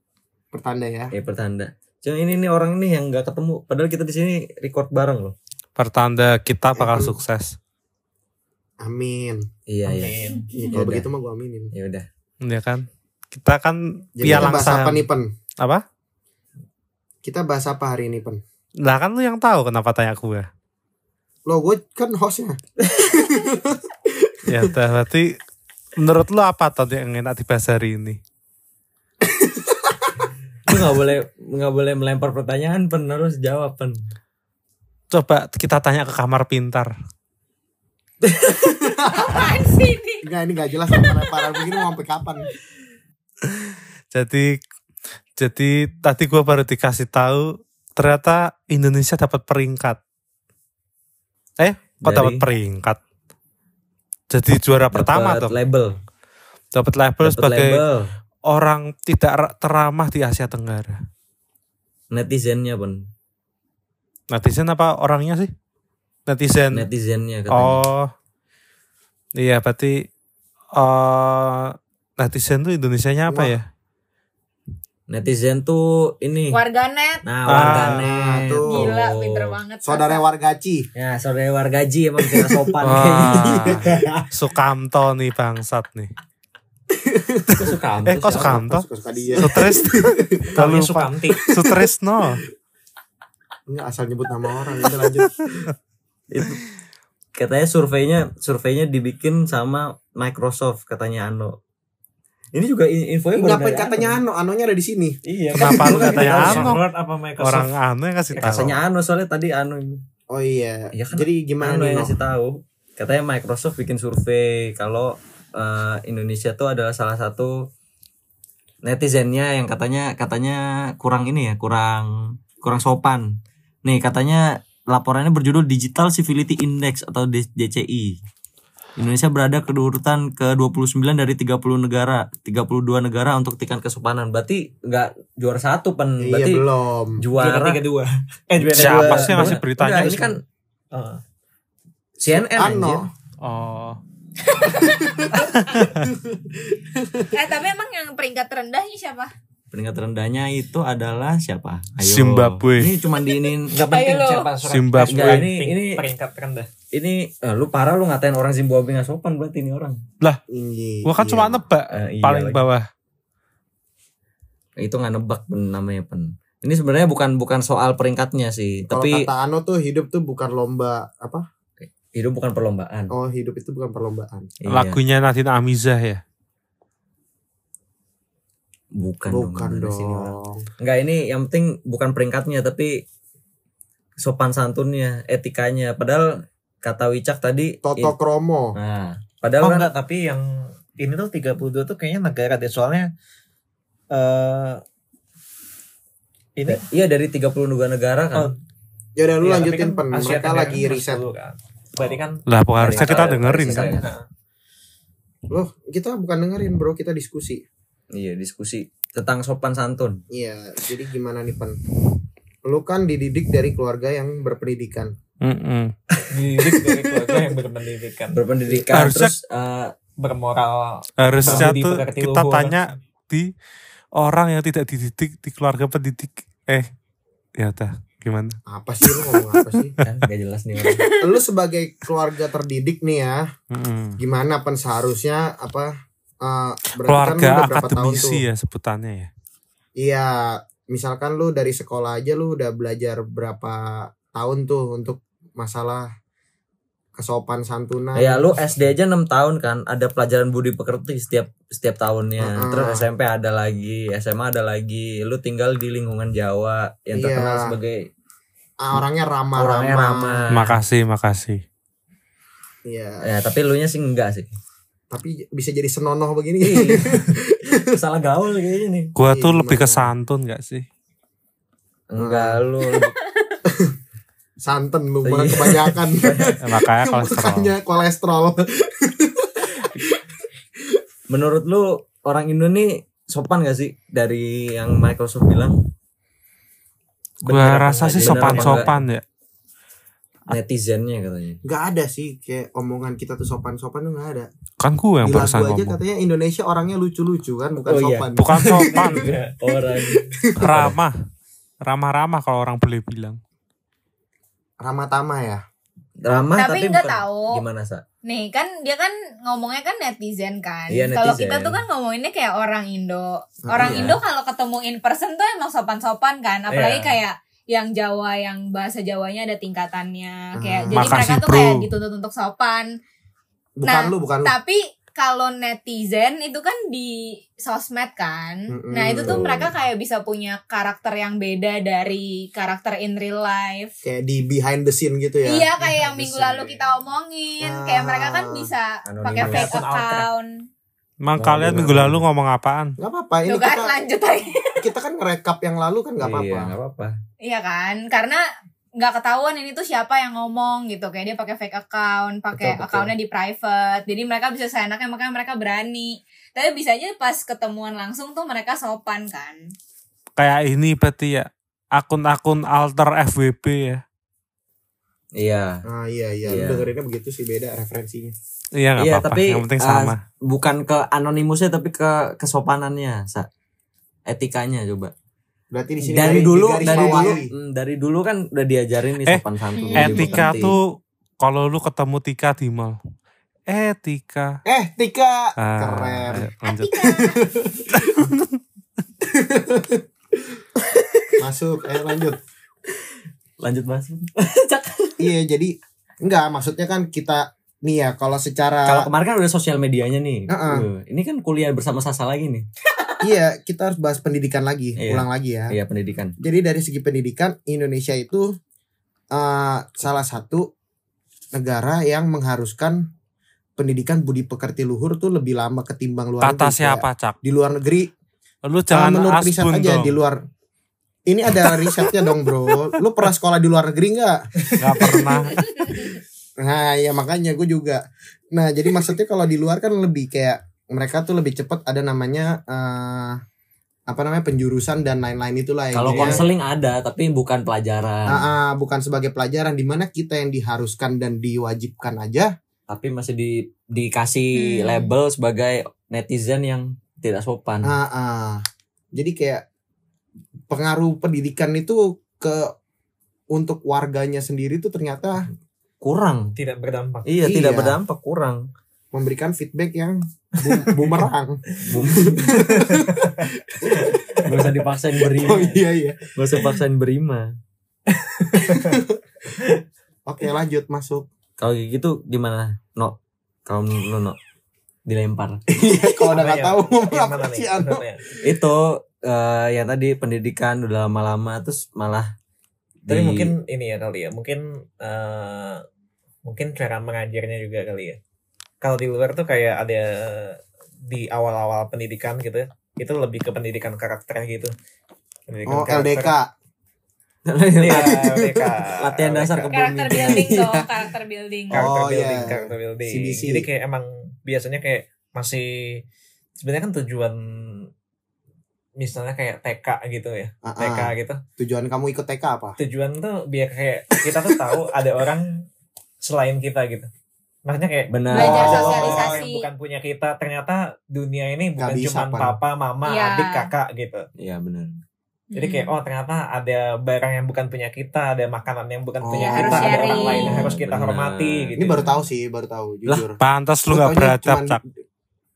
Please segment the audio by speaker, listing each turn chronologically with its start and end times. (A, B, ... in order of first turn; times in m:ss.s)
0:00.5-0:01.1 A
0:01.1-0:05.4 B
0:05.8-0:07.6 C
0:06.7-0:07.2 A
0:08.8-0:09.5 A
0:09.7-0:10.2 B
0:09.8-0:10.4 D
0:10.2-0:10.7 E
0:10.5-0:11.7 A
0:10.7-0:11.1 B
0:11.7-0:12.1 B
0:12.4-0:15.1 C
0:14.2-0:15.3 A
0:17.2-0:18.4 A
0:18.8-0:20.5 C
0:21.4-0:24.7 A
0:22.8-0:23.1 B
0:24.5-0:25.4 C
0:26.0-0:28.2 C
0:29.3-0:30.1 A
0:30.7-0:34.0 B
0:35.1-0:36.9 C
0:38.4-0:39.5 A
0:39.1-0:40.2 E
0:40.2-0:42.5 A
0:40.9-0:41.8 E
0:43.6-0:44.6 C
0:45.4-0:50.0 C
0:51.6-0:53.0 C
0:52.0-0:52.4 B
0:54.3-0:55.5 C
0:54.9-0:56.0 B
0:56.7-0:57.8 C
0:57.2-0:58.1 B
0:58.5-1:01.0 C
1:02.1-1:03.1 B
1:04.3-1:05.5 C
1:06.3-1:06.9 C
1:06.7-1:07.8 B
1:07.5-1:08.1 C
1:09.4-1:10.0 C
1:10.8-1:13.6 C
1:13.3-1:13.5 A
1:15.1-1:16.6 B
1:16.5-1:17.2 E
1:17.2-1:19.5 B
1:17.5-1:18.0 C
1:17.9-1:18.9 A
1:18.7-1:20.2 E
1:19.8-1:20.9 A
1:20.9-1:24.3 B
1:22.2-1:23.8 A
1:22.8-1:26.1 C
1:27.1-1:27.8 A
1:27.5-1:28.6 B
1:28.0-1:28.8 C
1:28.3-1:30.5 A
1:29.4-1:32.4 C
1:30.6-1:31.4 D
1:31.6-1:31.8 A
1:33.7-1:35.4 A
1:36.3-1:36.6 B
1:37.3-1:41.6 B
1:42.5-1:44.2 B
1:43.4-1:46.0 A
1:45.2-1:46.8 B
1:45.5-1:46.8 C
1:45.9-1:47.7 D
1:47.4-1:48.8 C
1:48.3-1:48.7 D
1:48.4-1:50.0 B
1:50.3-1:52.2 A
1:50.9-1:57.7 B
1:58.8-2:08.2 B
2:09.0-2:16.6 B
2:16.2-2:17.2 A
2:17.2-2:17.8 B
2:17.3-2:20.3 D
2:18.6-2:20.4 B
2:18.8-2:20.4 C
2:20.9-2:21.2 D
2:22.2-2:23.0 B
2:22.5-2:23.1 A
2:23.4-2:24.0 C
2:24.4-2:25.8 E
2:24.8-2:27.3 A
2:27.3-2:29.3 E
2:29.7-2:33.8 B
2:32.0-2:33.0 C
2:33.1-2:34.5 E
2:33.7-2:36.7 D
2:34.6-2:35.5 C
2:35.0-2:36.0 B
2:36.9-2:40.0 B
2:40.5-2:41.6 A
2:41.0-2:42.9 C
2:41.9-2:42.6 B
2:44.8-2:49.2 B
2:48.9-2:51.4 A
2:51.8-2:53.1 B
2:53.1-2:54.5 A
2:54.6-2:55.0 B
2:54.7-2:56.2 C
2:58.9-3:03.0 B
2:59.3-3:00.6 A
3:04.2-3:08.1 B
3:07.8-3:08.8 A
3:08.7-3:09.9 B
3:09.6-3:13.1 D
3:14.1-3:14.8 D
3:16.6-3:16.8 D
3:16.7-3:18.5 B
3:18.3-3:18.6 D
3:19.2-3:21.2 A
3:19.4-3:24.2 D
3:22.5-3:24.0 C
3:22.8-3:24.1 B
3:25.5-3:27.6 A
3:28.1-3:30.2 B
3:30.3-3:31.8 A
3:32.6-3:35.1 A
3:35.4-3:35.9 C
3:36.3-3:38.4 D
3:36.6-3:37.3 A
3:38.3-3:39.9 B
3:38.9-3:39.3 C
3:40.2-3:42.8 D
3:41.2-3:43.5 C
3:41.4-3:41.7 B
3:44.2-3:46.9 C
3:47.6-3:50.0 C
3:48.7-3:49.9 A
3:50.0-3:51.0 B
3:50.8-3:51.4 E
3:51.2-3:53.4 A
3:53.7-3:54.2 C
3:54.2-3:58.4 A
3:57.0-3:59.3 C
4:00.0-4:06.1 A
4:07.2-4:08.6 A
4:08.1-4:18.1 B
4:12.4-4:13.0 A
4:17.1-4:17.7 A
4:18.8-4:20.4 A
4:19.6-4:20.8 B
4:20.5-4:21.6 C
4:22.8-4:23.3 A
4:23.2-4:24.5 B
4:25.1-4:27.8 A
4:26.6-4:27.2 B
4:27.8-4:29.1 B
4:29.1-4:30.8 C
4:29.3-4:30.1 A
4:32.1-4:33.2 B
4:32.2-4:32.6 A
4:32.9-4:33.5 E
4:33.6-4:33.9 A
4:34.6-4:40.2 A
4:35.2-4:36.6 B
4:36.6-4:37.7 C
4:41.3-4:45.8 B
4:47.4-4:48.9 B
4:47.4-4:49.2 C
4:48.2-4:48.9 D
4:50.5-4:51.6 B
4:51.6-4:54.5 A
4:54.8-4:56.0 C
4:55.2-4:59.1 A
4:57.8-5:01.0 B
4:58.4-4:59.3 C
4:59.2-4:59.5 D
4:59.8-5:00.6 A
5:00.6-5:01.1 C
5:01.8-5:03.4 C
5:04.8-5:05.6 A
5:06.2-5:08.0 B
5:06.5-5:07.6 E
5:08.2-5:22.9 E
5:10.9-5:11.8 B
5:13.6-5:14.2 A
5:13.8-5:14.2 B
5:16.7-5:17.1 D
5:20.6-5:21.2 A
5:20.9-5:21.9 C
5:23.8-5:24.5 A
5:23.8-5:33.9 E
5:28.7-5:29.7 A
5:29.2-5:29.7 B
5:34.0-5:36.9 A
5:35.4-5:40.6 E
5:37.6-5:38.7 A
5:39.1-5:39.8 B
5:39.4-5:40.3 D
5:41.2-5:43.0 C
5:41.4-5:42.2 B
5:43.0-5:44.0 A
5:43.5-5:44.9 E
5:44.8-5:46.7 A
5:46.2-5:47.2 B
5:47.4-5:48.4 E
5:49.0-5:59.7 E
5:52.6-5:53.1 D
6:00.4-6:04.0 C
6:05.3-6:05.8 B
6:05.8-6:08.3 A
6:06.5-6:06.9 B
6:08.7-6:10.2 C
6:09.0-6:13.5 B
6:14.2-6:15.1 B
6:15.7-6:17.5 A
6:16.0-6:20.8 B
6:16.8-6:17.4 E
6:19.7-6:20.6 E
6:19.9-6:23.0 C
6:23.7-6:24.6 C
6:24.6-6:26.5 A
6:25.6-6:27.0 C
6:26.6-6:27.4 E
6:27.0-6:28.3 A
6:27.9-6:28.6 C
6:29.3-6:30.0 A
6:31.4-6:32.4 A
6:32.9-6:35.3 B
6:35.2-6:39.1 A
6:38.8-6:42.6 B
6:40.5-6:40.9 A
6:43.0-6:43.2 E
6:43.2-6:45.7 A
6:45.0-6:46.3 B
6:46.4-6:48.5 A
6:49.3-6:50.7 A
6:51.5-6:53.0 A
6:53.8-6:58.1 A
6:56.4-6:57.4 C
6:58.6-7:00.2 C
6:58.9-7:00.4 A
7:01.3-7:13.4 A
7:04.8-7:06.0 C
7:05.5-7:06.2 E
7:14.1-7:16.4 A
7:15.9-7:18.5 B
7:16.0-7:16.5 D
7:18.3-7:22.5 A
7:22.9-7:27.9 B
7:24.5-7:25.1 E
7:27.8-7:28.6 A
7:29.1-7:29.6 A
7:30.7-7:32.7 A
7:33.5-7:35.5 A
7:36.0-7:36.5 B
7:36.6-7:37.3 D
7:37.2-7:38.7 B
7:37.4-7:38.0 A
7:39.1-7:44.5 A
7:40.7-7:42.0 D
7:41.9-7:42.5 B
7:44.4-7:45.8 B
7:45.2-7:46.3 A
7:46.4-7:47.5 B
7:48.5-7:49.0 D
7:48.6-7:49.2 A
7:50.2-7:51.2 A
7:51.6-7:54.4 B
7:55.0-7:55.6 B
7:55.7-7:58.0 A
7:56.3-7:58.2 D
7:58.4-8:02.3 B
8:03.0-8:03.5 B
8:03.1-8:05.8 D
8:06.4-8:08.2 D
8:08.8-8:14.7 D
8:15.5-8:16.3 D
8:15.7-8:16.5 A
8:17.4-8:18.2 B
8:17.8-8:19.7 D
8:18.2-8:18.6 A
8:19.0-8:20.8 B
8:19.7-8:21.9 E
8:21.7-8:26.0 D
8:21.7-8:23.7 A
8:26.6-8:27.9 D
8:29.0-8:31.4 D
8:30.6-8:32.8 A
8:32.8-8:35.6 D
8:34.2-8:34.8 A
8:36.2-8:37.1 D
8:37.6-8:44.2 D
8:38.1-8:39.2 B
8:38.3-8:39.7 E
8:38.3-8:39.4 A
8:41.8-8:42.6 A
8:43.0-8:43.7 E
8:44.4-8:45.0 B
8:45.5-8:46.0 E
8:45.5-8:52.2 D
8:49.2-8:50.2 A
8:49.3-8:50.7 E
8:49.6-8:51.8 B
8:51.8-8:54.8 A
8:53.4-8:54.8 C